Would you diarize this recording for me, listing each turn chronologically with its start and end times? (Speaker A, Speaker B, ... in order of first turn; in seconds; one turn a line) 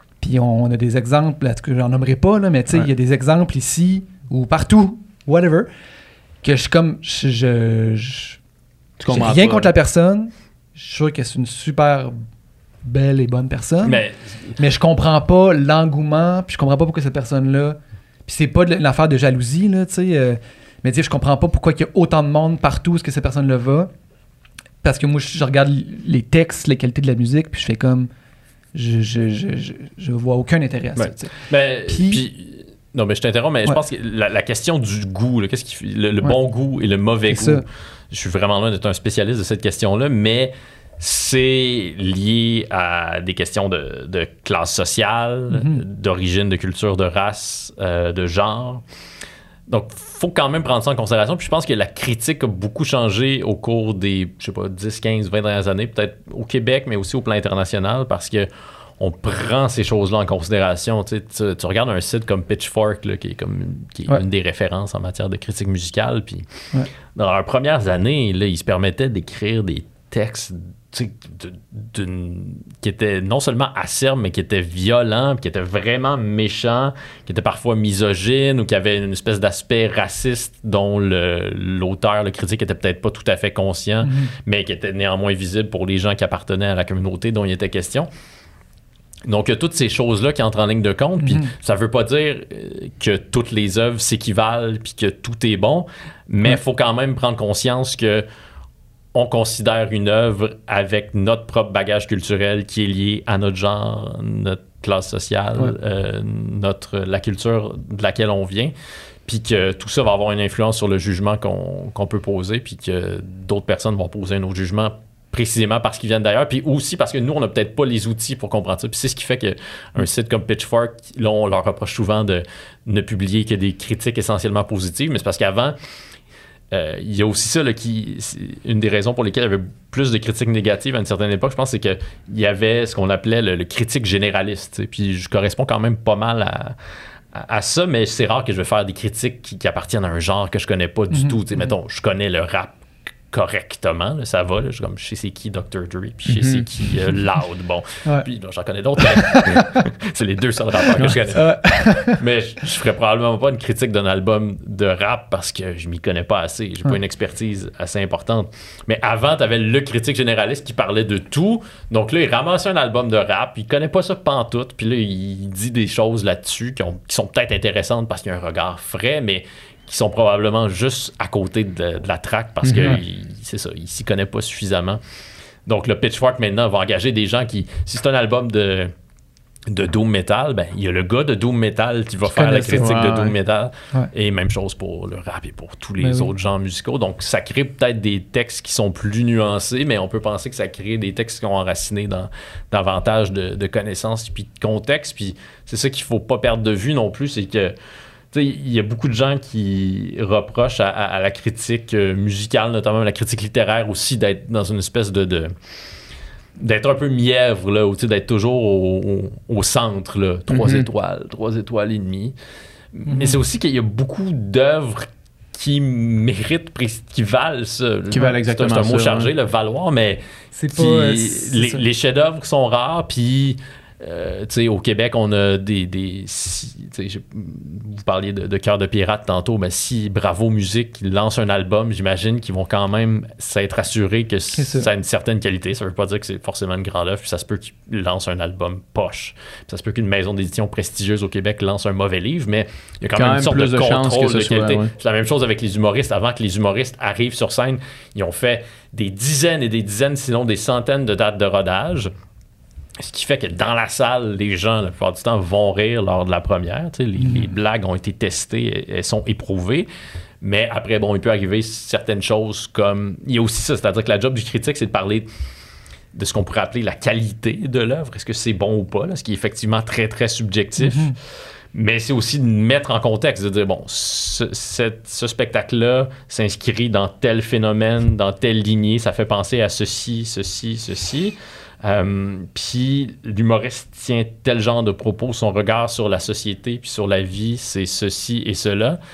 Speaker A: 0.2-5.7
Speaker A: 6.4-8.4
Speaker B: 9.0-9.7
Speaker A: 9.1-12.2
Speaker A: 12.8-14.0
Speaker C: 13.8-14.2
Speaker A: 14.6-23.9
Speaker A: 24.8-28.1
Speaker A: 28.7-31.3
Speaker C: 30.9-48.8
Speaker A: 31.9-32.2
Speaker A: 37.3-37.6
Speaker A: 45.5-45.8
Speaker C: 49.7-66.5
Speaker C: 67.1-88.1
Speaker A: 84.0-84.3
Speaker C: 89.2-98.2
Speaker A: 91.2-91.5
Speaker C: 99.1-108.7
Speaker C: 109.2-125.8
Speaker C: 126.7-136.8
Speaker C: 137.3-142.8
Speaker A: 141.1-141.7
Speaker C: 143.3-175.0
Speaker B: 146.3-146.7
Speaker A: 149.0-149.8
Speaker A: 151.3-152.2
Speaker B: 172.6-173.0
Speaker C: 175.7-178.9
Speaker C: 179.7-197.7
Speaker A: 182.3-182.9
Speaker B: 182.8-183.3
Speaker A: 186.0-186.3
Speaker C: 198.3-205.5
Speaker C: 206.6-212.3
Speaker B: 210.5-210.9
Speaker C: 212.9-252.1
Speaker A: 213.1-213.4
Speaker B: 218.1-219.3
Speaker A: 220.5-221.8
Speaker A: 234.5-234.9
Speaker B: 243.2-244.9
Speaker C: 253.0-259.9
Speaker A: 257.2-257.5
Speaker C: 260.4-265.3
Speaker C: 266.1-271.1
Speaker A: 270.8-271.1
Speaker C: 271.7-289.0